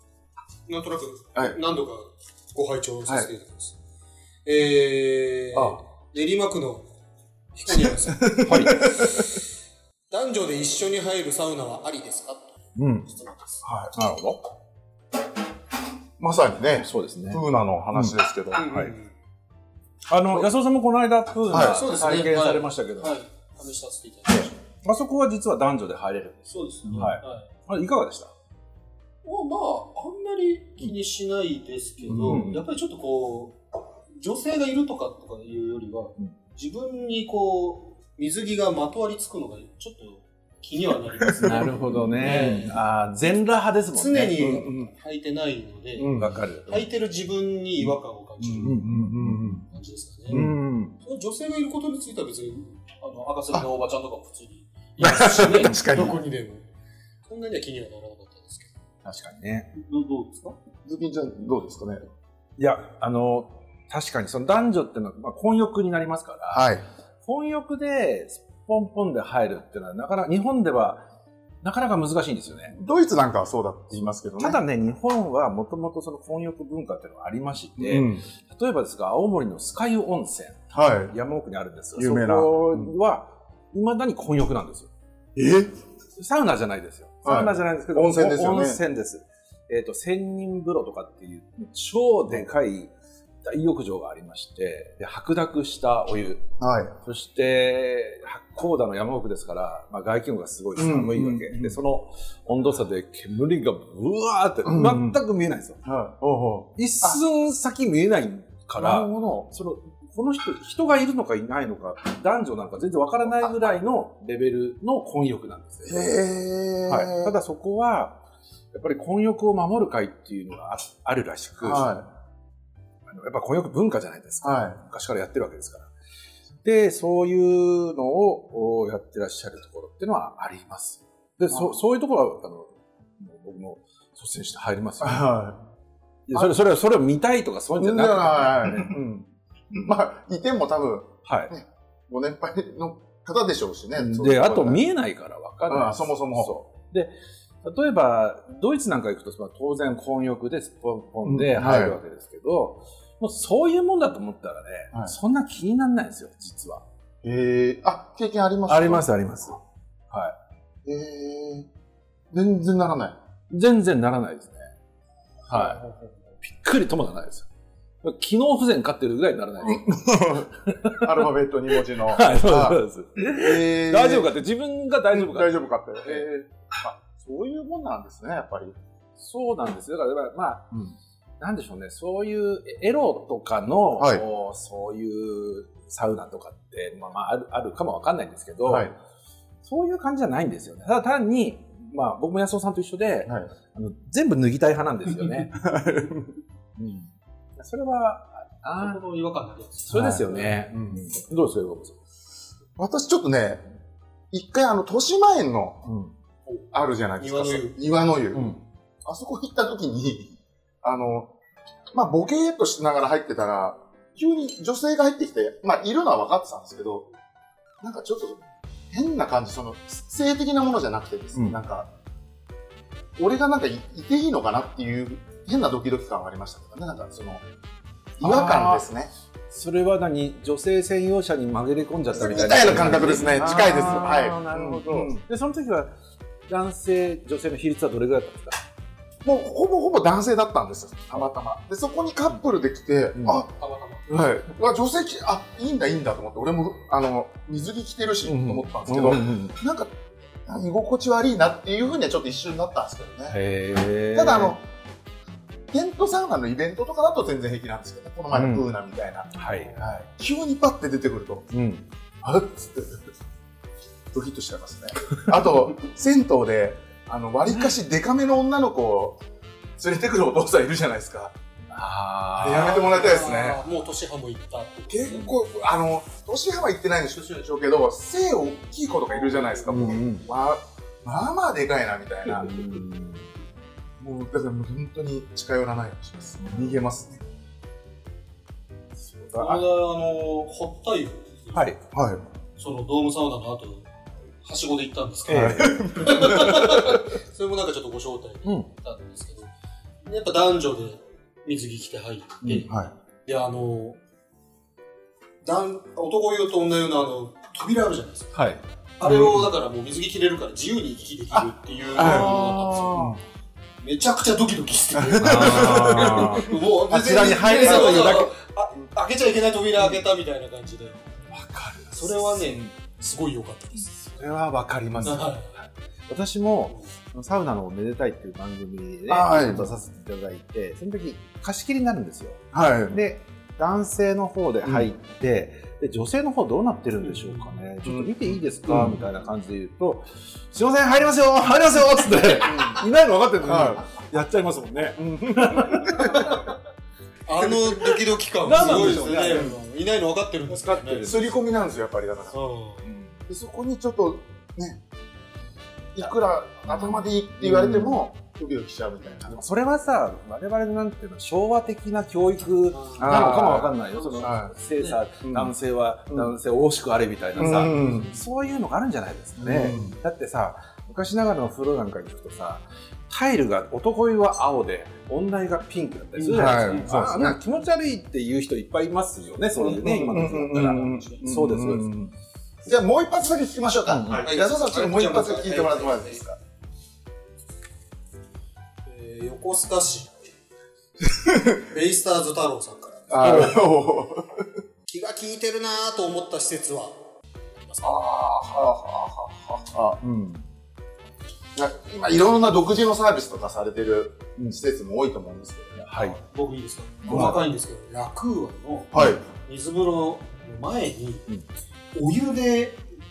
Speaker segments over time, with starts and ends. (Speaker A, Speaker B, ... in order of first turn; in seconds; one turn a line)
Speaker A: 0.7-3.8
Speaker A: 4.5-6.9
Speaker B: 5.5-5.8
Speaker A: 7.5-9.4
Speaker B: 7.7-9.3
Speaker C: 8.4-9.0
Speaker A: 10.1-12.6
Speaker C: 12.8-13.1
Speaker A: 13.1-13.6
Speaker B: 13.6-13.9
Speaker C: 13.9-14.4
Speaker B: 16.2-18.7
Speaker C: 16.8-18.9
Speaker A: 18.5-19.1
Speaker C: 20.1-23.2
Speaker B: 21.5-21.8
Speaker A: 21.6-24.6
Speaker C: 24.3-28.3
Speaker A: 26.5-27.5
Speaker B: 26.9-27.2
Speaker A: 29.2-33.6
Speaker B: 32.1-32.5
Speaker C: 32.1-32.6
Speaker A: 34.1-42.8
Speaker B: 41.2-42.6
Speaker C: 41.4-44.4
Speaker A: 44.0-48.8
Speaker B: 44.4-44.9
Speaker B: 46.0-46.4
Speaker C: 46.1-46.9
Speaker B: 48.4-49.7
Speaker C: 48.6-49.6
Speaker A: 49.7-50.4
Speaker B: 50.3-50.6
Speaker C: 50.3-51.0
Speaker A: 51.0-56.7
Speaker B: 55.0-56.2
Speaker A: 57.3-58.7
Speaker C: 59.0-59.7
Speaker A: 59.7-60.6
Speaker B: 60.9-62.0
Speaker C: 62.6-66.7
Speaker B: 66.5-66.8
Speaker C: 67.2-71.0
Speaker C: 71.6-72.8
Speaker B: 72.7-74.6
Speaker C: 74.4-84.9
Speaker B: 77.8-78.2
Speaker B: 80.7-81.2
Speaker B: 82.0-82.9
Speaker B: 85.3-85.7
Speaker C: 86.2-92.9
Speaker B: 87.2-88.8
Speaker C: 93.4-96.5
Speaker B: 96.6-97.0
Speaker C: 97.0-105.8
Speaker B: 100.8-101.8
Speaker B: 104.7-105.2
Speaker B: 105.8-107.2
Speaker C: 106.8-116.1
Speaker B: 108.8-109.5
Speaker B: 113.4-113.8
Speaker B: 115.8-117.3
Speaker C: 116.9-118.2
Speaker C: 118.7-122.0
Speaker B: 121.6-122.1
Speaker C: 123.1-125.9
Speaker B: 124.4-124.8
Speaker C: 126.6-135.3
Speaker B: 131.5-131.8
Speaker B: 135.0-135.6
Speaker C: 136.3-139.0
Speaker B: 137.8-144.8
Speaker C: 141.2-141.5
Speaker C: 144.0-147.1
Speaker B: 145.7-146.5
Speaker C: 147.6-156.8
Speaker B: 151.2-152.0
Speaker B: 157.2-159.1
Speaker C: 158.7-160.3
Speaker B: 160.8-161.7
Speaker B: 162.3-163.2
Speaker C: 163.5-164.7
Speaker C: 165.5-165.8
Speaker B: 165.5-165.8
Speaker C: 166.4-167.5
Speaker C: 168.0-170.0
Speaker B: 169.6-174.4
Speaker C: 170.7-171.2
Speaker C: 171.8-176.3
Speaker B: 175.1-178.8
Speaker C: 179.2-180.7
Speaker C: 181.4-188.9
Speaker B: 184.0-184.2
Speaker B: 188.7-188.9
Speaker C: 189.6-195.6
Speaker B: 195.5-196.3
Speaker C: 196.8-199.0
Speaker A: 198.8-200.4
Speaker C: 199.9-202.0
Speaker B: 199.9-201.0
Speaker B: 202.8-203.6
Speaker B: 204.3-205.9
Speaker C: 205.9-206.1
Speaker B: 206.7-211.3
Speaker A: 207.2-207.8
Speaker C: 208.3-208.6
Speaker B: 211.9-217.1
Speaker B: 217.8-221.9
Speaker C: 221.3-221.6
Speaker B: 223.2-227.4
Speaker B: 228.2-229.1
Speaker C: 228.2-228.9
Speaker C: 229.5-235.9
Speaker B: 232.1-235.2
Speaker C: 236.5-238.6
Speaker B: 239.2-243.5
Speaker C: 243.2-243.4
Speaker A: 243.5-244.1
Speaker B: 244.1-253.4
Speaker C: 248.3-249.6
Speaker C: 253.3-254.6
Speaker B: 254.1-254.6
Speaker B: 255.7-261.5
Speaker C: 258.3-258.7
Speaker C: 259.3-260.0
Speaker C: 261.5-261.9
Speaker B: 262.2-263.0
Speaker B: 264.1-269.2
Speaker B: 269.8-271.4
Speaker C: 271.7-273.0
Speaker B: 272.4-273.6
Speaker A: 272.4-275.3
Speaker B: 274.9-282.8
Speaker C: 279.7-280.3
Speaker C: 282.3-283.3
Speaker B: 284.0-287.2
Speaker C: 286.4-286.8
Speaker C: 289.0-289.6
Speaker A: 289.4-291.7
Speaker C: 291.5-291.8
Speaker B: 291.9-292.2
Speaker A: 292.6-299.5
Speaker C: 295.3-296.0
Speaker B: 295.3-297.1
Speaker A: 300.1-304.0
Speaker B: 302.5-302.9
Speaker A: 305.4-308.4
Speaker C: 308.3-308.6
Speaker A: 309.0-313.1
Speaker B: 309.0-309.5
Speaker B: 311.3-313.2
Speaker C: 312.0-313.1
Speaker A: 313.8-321.3
Speaker B: 315.0-318.2
Speaker C: 315.2-318.3
Speaker C: 321.3-322.7
Speaker A: 321.9-323.9
Speaker C: 324.0-346.3
Speaker A: 325.0-325.5
Speaker B: 329.1-329.7
Speaker B: 332.5-333.0
Speaker B: 334.6-334.9
Speaker A: 337.1-337.5
Speaker B: 337.9-339.1
Speaker B: 342.5-342.8
Speaker B: 343.4-344.0
Speaker B: 345.0-346.3
Speaker A: 346.0-346.5
Speaker A: 347.3-351.1
Speaker B: 347.4-348.0
Speaker C: 348.4-349.5
Speaker B: 349.3-349.6
Speaker C: 350.5-351.4
Speaker B: 351.0-352.4
Speaker A: 352.3-352.9
Speaker B: 352.9-354.8
Speaker B: 355.9-359.4
Speaker C: 357.4-358.0
Speaker C: 359.3-382.0
Speaker A: 362.7-365.0
Speaker B: 363.0-364.5
Speaker B: 365.2-365.5
Speaker B: 367.4-368.1
Speaker A: 367.4-368.1
Speaker B: 369.4-370.0
Speaker B: 376.2-377.4
Speaker A: 376.3-376.9
Speaker B: 379.6-382.1
Speaker A: 379.6-381.2
Speaker B: 382.6-386.4
Speaker C: 383.9-384.3
Speaker A: 384.1-386.3
Speaker A: 388.9-390.2
Speaker B: 391.0-391.6
Speaker A: 391.6-393.5
Speaker B: 393.1-394.6
Speaker C: 393.2-393.6
Speaker A: 394.9-397.0
Speaker A: 397.6-398.0
Speaker B: 397.8-400.0
Speaker C: 400.0-400.4
Speaker B: 401.6-405.8
Speaker C: 405.8-406.2
Speaker A: 406.0-411.3
Speaker B: 407.1-407.4
Speaker C: 407.1-407.4
Speaker B: 408.9-409.2
Speaker A: 411.9-412.8